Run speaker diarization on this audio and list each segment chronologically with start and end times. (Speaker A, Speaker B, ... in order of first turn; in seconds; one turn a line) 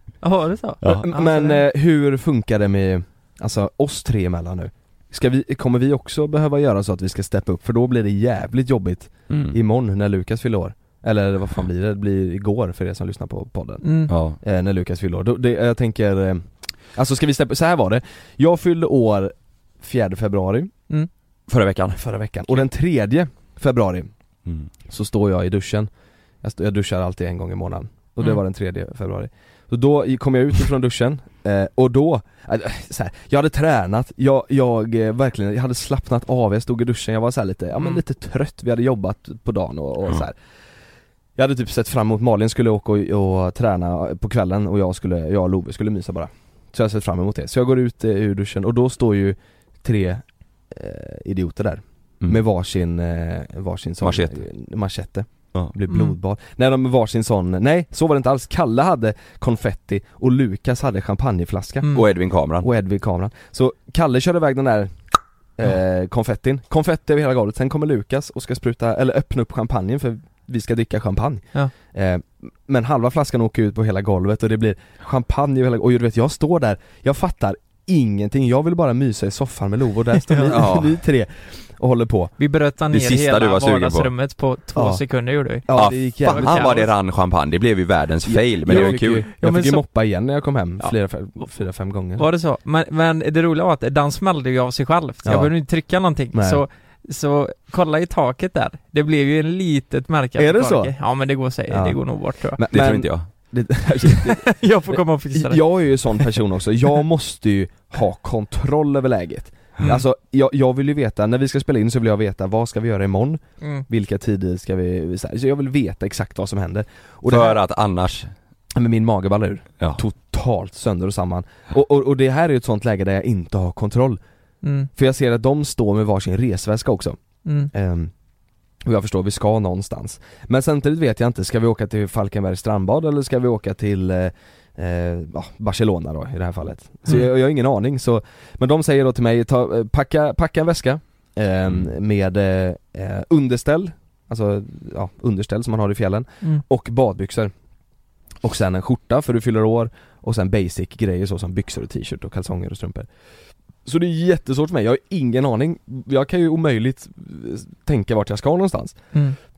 Speaker A: 0.2-1.6
Speaker B: 0.8-1.1
Speaker C: 0.9-13.8
Speaker B: 9.3-9.6
Speaker A: 13.8-14.1
Speaker B: 14.1-14.4
Speaker C: 14.4-20.7
Speaker B: 21.5-22.0
Speaker C: 21.9-24.1
Speaker C: 24.9-25.9
Speaker C: 26.4-40.4
Speaker C: 41.4-62.0
Speaker B: 54.0-54.3
Speaker A: 55.9-56.2
Speaker B: 61.9-62.7
Speaker C: 62.6-65.0
Speaker C: 65.6-82.3
Speaker B: 80.5-81.0
Speaker A: 82.4-86.9
Speaker B: 82.9-84.1
Speaker C: 84.8-85.0
Speaker C: 85.7-86.8
Speaker B: 85.7-89.3
Speaker C: 88.2-92.3
Speaker A: 88.7-89.8
Speaker A: 92.2-102.6
Speaker C: 95.2-95.5
Speaker C: 96.3-96.6
Speaker C: 100.4-100.9
Speaker C: 101.7-117.6
Speaker B: 102.7-103.3
Speaker A: 104.2-105.6
Speaker B: 117.3-118.3
Speaker C: 118.7-124.2
Speaker A: 124.6-124.9
Speaker C: 125.0-127.2
Speaker A: 127.5-127.7
Speaker C: 127.7-128.1
Speaker C: 128.8-147.5
Speaker C: 148.4-153.1
Speaker C: 153.8-159.0